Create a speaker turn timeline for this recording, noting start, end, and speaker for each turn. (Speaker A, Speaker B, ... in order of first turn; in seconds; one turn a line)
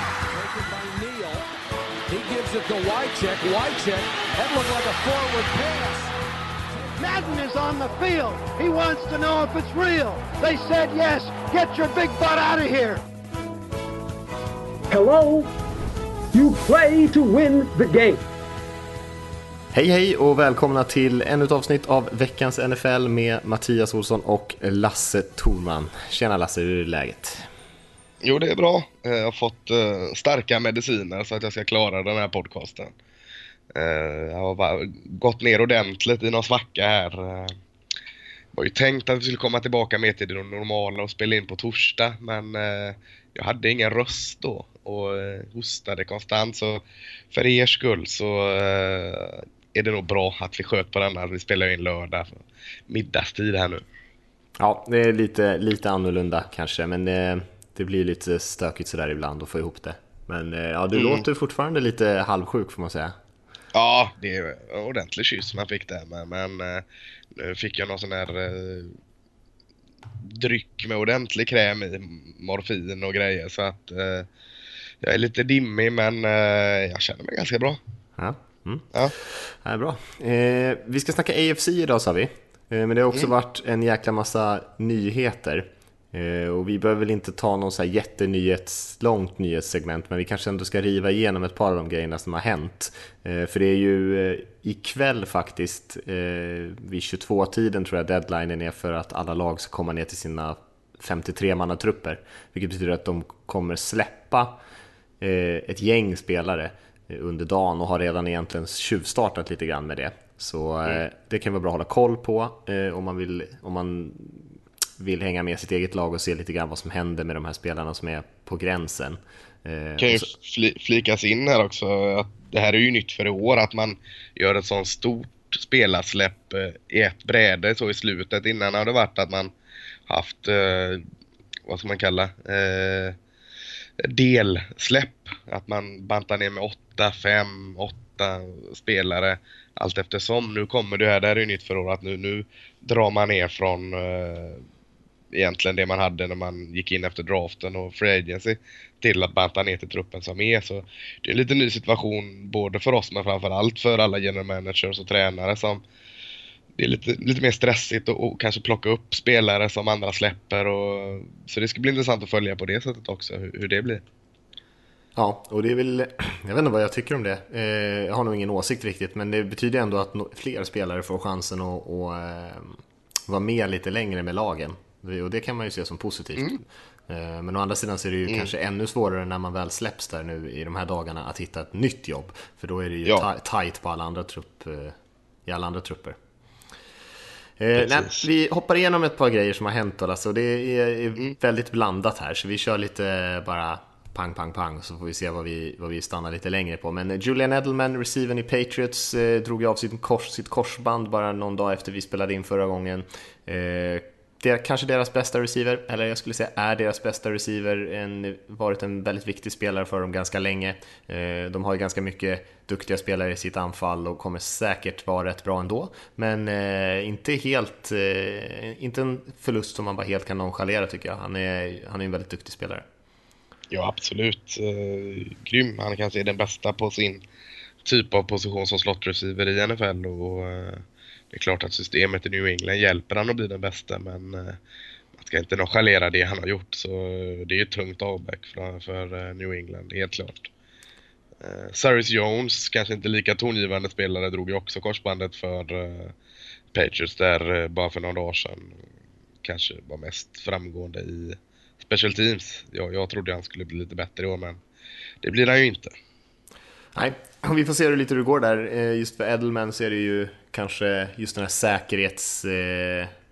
Speaker A: 0.2-1.4
Speaker A: 2.1-5.9
Speaker B: 7.0-13.0
Speaker C: 14.9-15.5
Speaker C: 16.3-18.2
Speaker D: 19.7-27.5
Speaker E: 28.2-32.9
Speaker E: 33.7-37.6
Speaker E: 38.5-53.8
Speaker D: 54.6-63.1
Speaker E: 60.9-61.2
Speaker E: 63.7-66.8
Speaker E: 67.3-68.9
Speaker E: 70.2-74.3
Speaker E: 75.0-77.8
Speaker D: 78.2-78.9
Speaker D: 79.5-104.6
Speaker D: 105.2-120.3
Speaker E: 120.0-129.5
Speaker E: 130.1-131.0
Speaker E: 131.7-133.2
Speaker E: 134.0-144.6
Speaker E: 145.3-155.8
Speaker E: 156.8-164.0
Speaker D: 165.2-186.2
Speaker E: 178.2-178.5
Speaker D: 187.6-222.8
Speaker E: 187.7-188.2
Speaker E: 223.7-227.2
Speaker E: 227.8-234.6
Speaker E: 235.2-240.5
Speaker E: 241.4-246.1
Speaker E: 246.7-248.8
Speaker E: 249.4-254.6
Speaker E: 255.2-255.9
Speaker D: 256.9-263.1